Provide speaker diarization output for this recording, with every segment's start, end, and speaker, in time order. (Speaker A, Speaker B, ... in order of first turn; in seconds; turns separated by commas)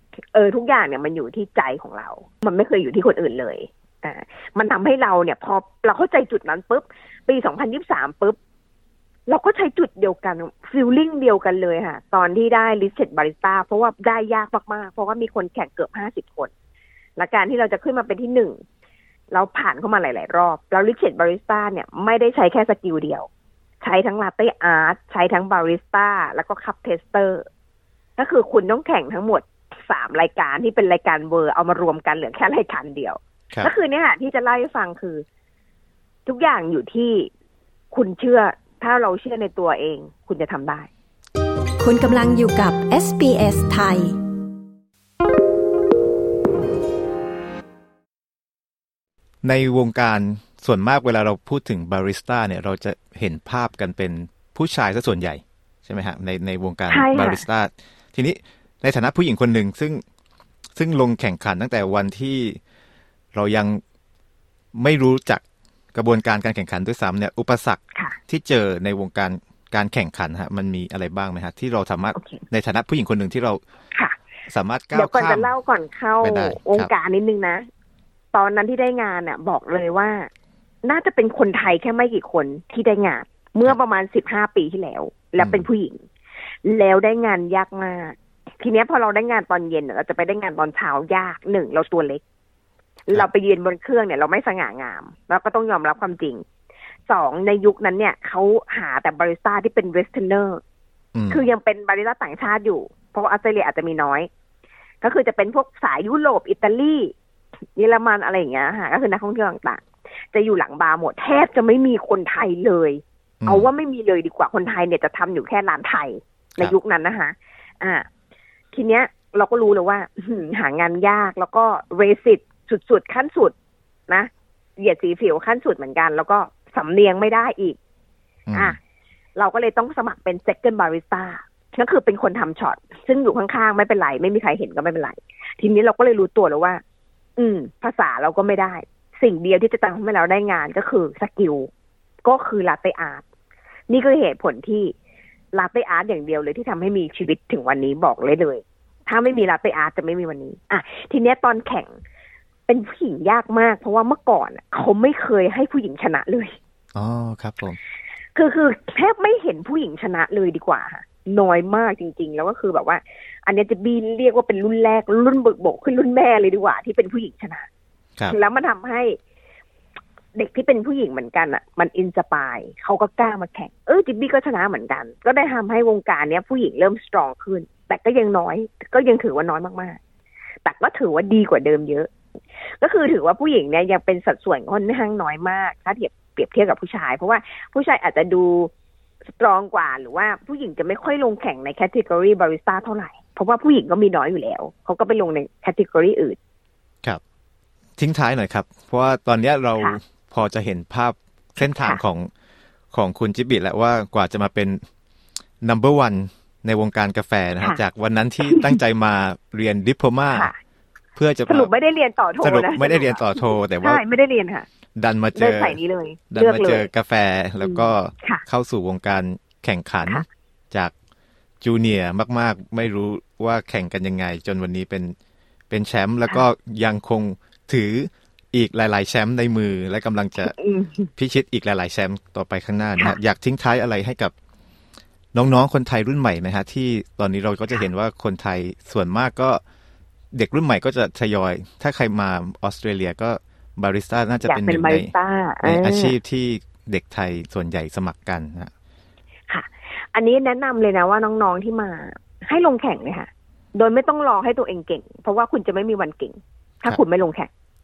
Speaker A: 0.3-8.4, Speaker A: 9.3-16.5, Speaker A: 17.2-18.6, Speaker A: 19.3-23.3, Speaker A: 23.8-27.4, Speaker A: 28.2-35.2, Speaker A: 36.3-37.3, Speaker A: 37.9-40.9, Speaker B: 41.8-44.1, Speaker C: 49.4-60.0, Speaker A: 56.9-57.5, Speaker C: 60.8-62.6, Speaker C: 63.3-63.8, Speaker C: 64.8-65.4, Speaker C: 65.9-73.6, Speaker A: 72.2-72.4, Speaker C: 74.5-75.5, Speaker A: 74.9-77.7, Speaker C: 76.2-76.9, Speaker A: 78.3-80.3, Speaker A: 80.8-86.0, Speaker C: 85.4-85.7, Speaker A: 86.7-92.2, Speaker A: 93.1-96.4, Speaker A: 97.1-100.6, Speaker C: 101.2-101.5, Speaker A: 101.3-104.3, Speaker A: 105.0-107.1, Speaker A: 107.8-118.0, Speaker C: 113.4-113.7, Speaker A: 118.7-123.5, Speaker A: 124.1-127.8, Speaker C: 128.5-128.8, Speaker A: 129.4-136.8, Speaker A: 137.4-141.7, Speaker A: 142.2-143.2, Speaker A: 143.9-144.9, Speaker A: 145.5-152.0, Speaker A: 152.7-156.6, Speaker C: 156.9-157.8, Speaker A: 158.3-167.7, Speaker A: 168.3-169.2, Speaker A: 170.3-180.0, Speaker A: 180.7-182.1, Speaker A: 182.8-188.7, Speaker A: 189.4-196.4, Speaker C: 198.0-202.3, Speaker A: 201.6-202.0, Speaker C: 202.9-204.8, Speaker C: 205.6-210.5, Speaker A: 208.4-208.8, Speaker C: 211.2-211.7, Speaker A: 211.5-214.7, Speaker C: 212.4-214.0, Speaker C: 215.0-215.8, Speaker A: 215.3-216.9, Speaker C: 216.3-220.9, Speaker A: 217.6-218.4, Speaker C: 221.6-225.1, Speaker C: 225.7-230.6, Speaker A: 230.4-231.1, Speaker C: 231.2-234.3, Speaker C: 235.3-239.6, Speaker C: 240.3-245.1, Speaker A: 244.4-246.2, Speaker C: 245.6-248.7, Speaker A: 249.5-257.5